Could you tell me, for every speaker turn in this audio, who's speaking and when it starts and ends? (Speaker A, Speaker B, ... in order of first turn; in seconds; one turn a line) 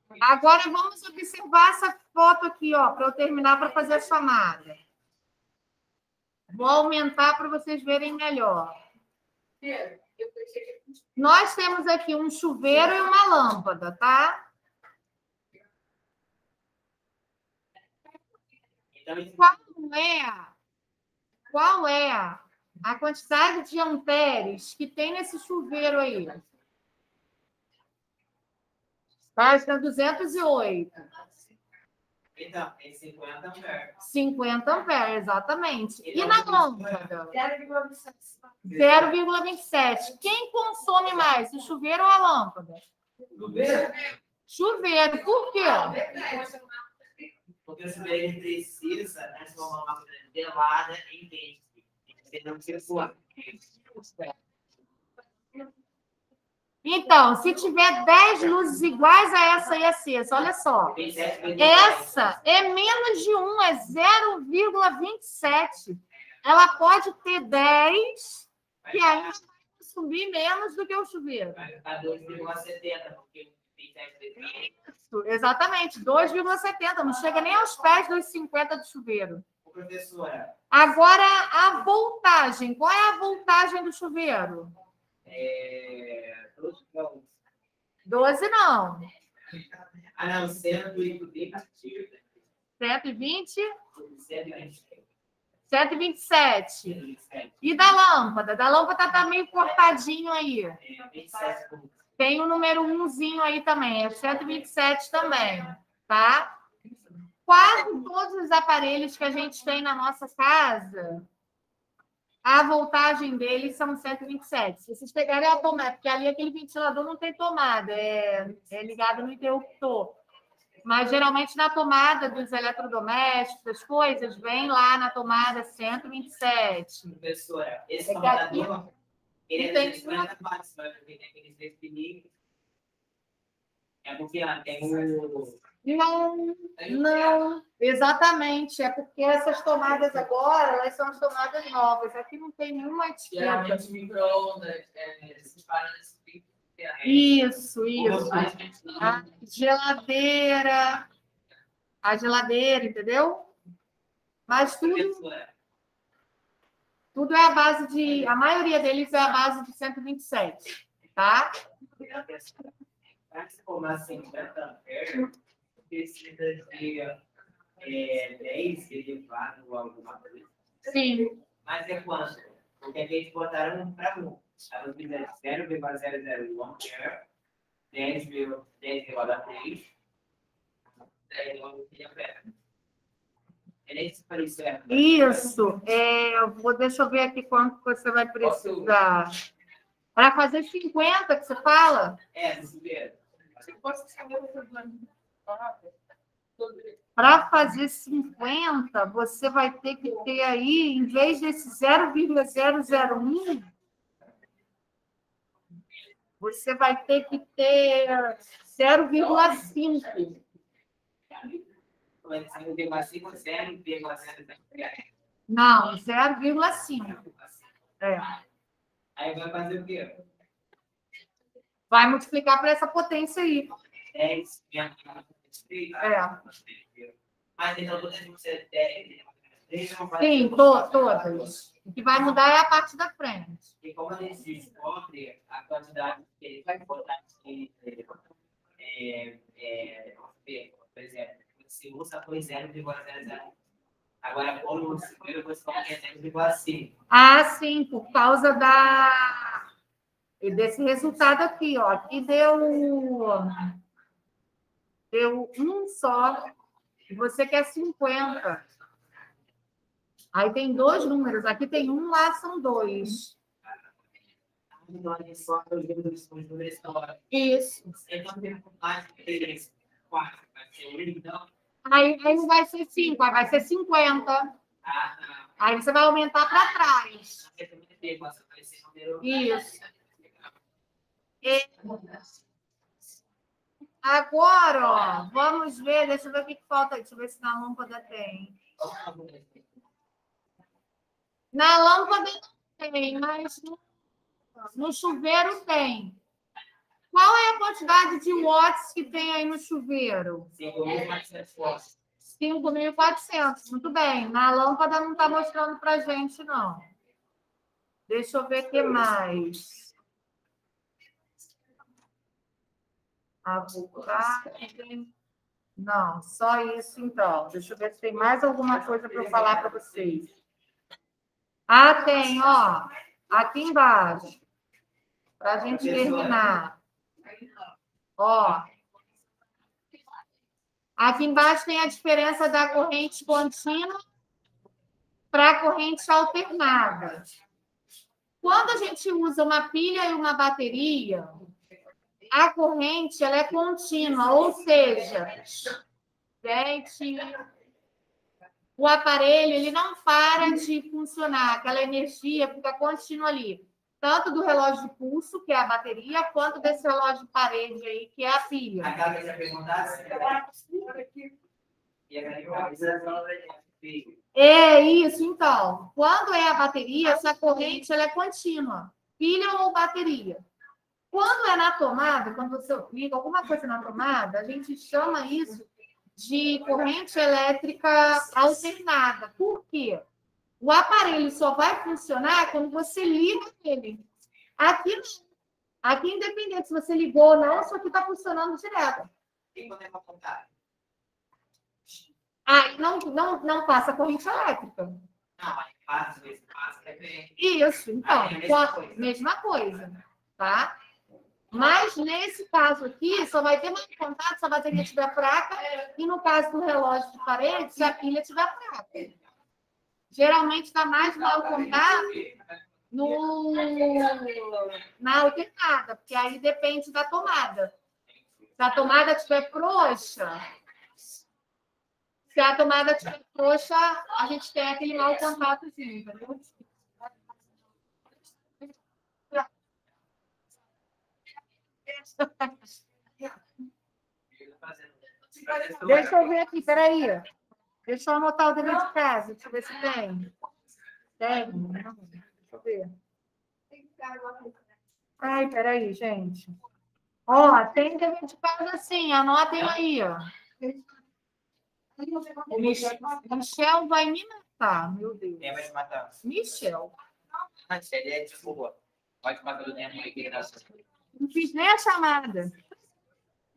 Speaker A: 0.2-4.8
Speaker A: 6.5-8.8
Speaker A: 11.2-14.5
Speaker B: 18.9-19.5
Speaker A: 19.4-20.5
Speaker A: 21.5-26.4
Speaker A: 29.4-30.9
Speaker B: 32.4-34.0
Speaker A: 34.0-37.4
Speaker B: 36.0-37.1
Speaker C: 37.3-38.5
Speaker A: 38.7-42.9
Speaker A: 44.5-46.1
Speaker C: 46.0-46.5
Speaker B: 47.6-53.5
Speaker A: 56.8-61.0
Speaker B: 60.9-62.3
Speaker A: 61.6-71.6
Speaker B: 68.8-69.3
Speaker B: 71.5-74.7
Speaker A: 74.4-79.4
Speaker B: 79.6-80.6
Speaker A: 80.7-84.7
Speaker B: 85.2-87.3
Speaker A: 88.1-89.1
Speaker B: 89.5-92.4
Speaker A: 92.8-93.7
Speaker B: 94.0-95.0
Speaker A: 95.7-97.0
Speaker B: 96.9-97.6
Speaker A: 97.6-100.8
Speaker B: 100.8-102.0
Speaker A: 102.2-106.6
Speaker A: 107.5-111.3
Speaker A: 112.4-120.2
Speaker A: 120.8-127.2
Speaker B: 127.1-128.9
Speaker A: 128.1-128.8
Speaker B: 129.5-132.3
Speaker A: 129.6-130.3
Speaker B: 134.0-135.6
Speaker A: 135.8-143.9
Speaker B: 136.8-137.3
Speaker D: 143.3-147.2
Speaker A: 147.0-151.1
Speaker B: 148.0-148.7
Speaker D: 148.0-149.1
Speaker A: 152.0-153.5
Speaker A: 154.5-155.2
Speaker B: 154.7-155.5
Speaker A: 157.2-161.5
Speaker B: 162.0-162.6
Speaker B: 163.3-165.3
Speaker B: 165.9-167.2
Speaker B: 167.8-170.5
Speaker A: 170.8-171.3
Speaker B: 171.6-177.3
Speaker B: 177.9-179.9
Speaker B: 181.3-182.5
Speaker B: 183.9-185.6
Speaker A: 184.9-189.4
Speaker D: 188.4-188.7
Speaker A: 190.2-192.2
Speaker B: 192.3-193.2
Speaker A: 197.2-203.7
Speaker A: 206.4-210.4
Speaker B: 212.2-215.1
Speaker A: 215.5-217.3
Speaker A: 218.0-218.3
Speaker B: 219.2-220.2
Speaker A: 221.9-223.7
Speaker B: 224.1-231.6
Speaker A: 226.0-226.4
Speaker A: 230.2-233.7
Speaker B: 233.8-238.2
Speaker B: 238.8-243.5
Speaker B: 244.2-246.9
Speaker A: 247.1-249.6
Speaker A: 250.4-253.8
Speaker A: 255.1-256.5
Speaker A: 257.1-258.6
Speaker A: 260.3-263.4
Speaker B: 264.7-267.2
Speaker A: 267.3-267.9
Speaker B: 267.9-271.5
Speaker A: 271.9-274.6
Speaker B: 274.8-275.5
Speaker A: 275.6-277.4
Speaker B: 277.4-279.4
Speaker A: 279.2-279.8
Speaker A: 281.4-282.0
Speaker A: 284.0-288.6
Speaker B: 288.8-289.5
Speaker A: 291.5-293.8
Speaker A: 294.7-296.2
Speaker A: 297.1-300.5
Speaker B: 300.6-301.9
Speaker A: 302.4-306.9
Speaker A: 308.1-309.9
Speaker A: 313.4-315.1
Speaker A: 315.8-320.3
Speaker A: 321.7-324.4
Speaker A: 325.4-326.8
Speaker B: 325.6-326.4
Speaker A: 328.2-328.7
Speaker A: 331.0-334.0
Speaker A: 335.3-337.3
Speaker A: 338.4-341.4
Speaker A: 342.3-345.8
Speaker A: 346.4-347.4
Speaker A: 348.8-359.0
Speaker B: 358.8-360.4
Speaker C: 360.4-361.2
Speaker B: 362.1-364.2
Speaker A: 364.4-370.4
Speaker A: 371.1-380.0
Speaker A: 380.6-384.0
Speaker A: 384.6-385.2
Speaker A: 385.8-389.1
Speaker B: 389.5-390.5
Speaker A: 392.5-395.0
Speaker B: 395.4-397.3
Speaker A: 397.4-400.7
Speaker B: 398.0-399.0
Speaker A: 401.5-409.1
Speaker A: 410.1-412.2
Speaker A: 412.9-417.7
Speaker A: 418.6-420.4
Speaker A: 422.3-426.5
Speaker A: 432.0-432.6
Speaker B: 434.3-436.3
Speaker A: 435.8-437.3
Speaker A: 437.9-440.3
Speaker A: 441.2-442.9
Speaker C: 443.7-444.6
Speaker A: 445.2-446.5
Speaker A: 447.3-450.3
Speaker C: 452.0-453.1
Speaker A: 452.5-455.6
Speaker B: 455.4-456.1
Speaker A: 456.2-456.9
Speaker B: 457.7-460.8
Speaker A: 461.2-462.5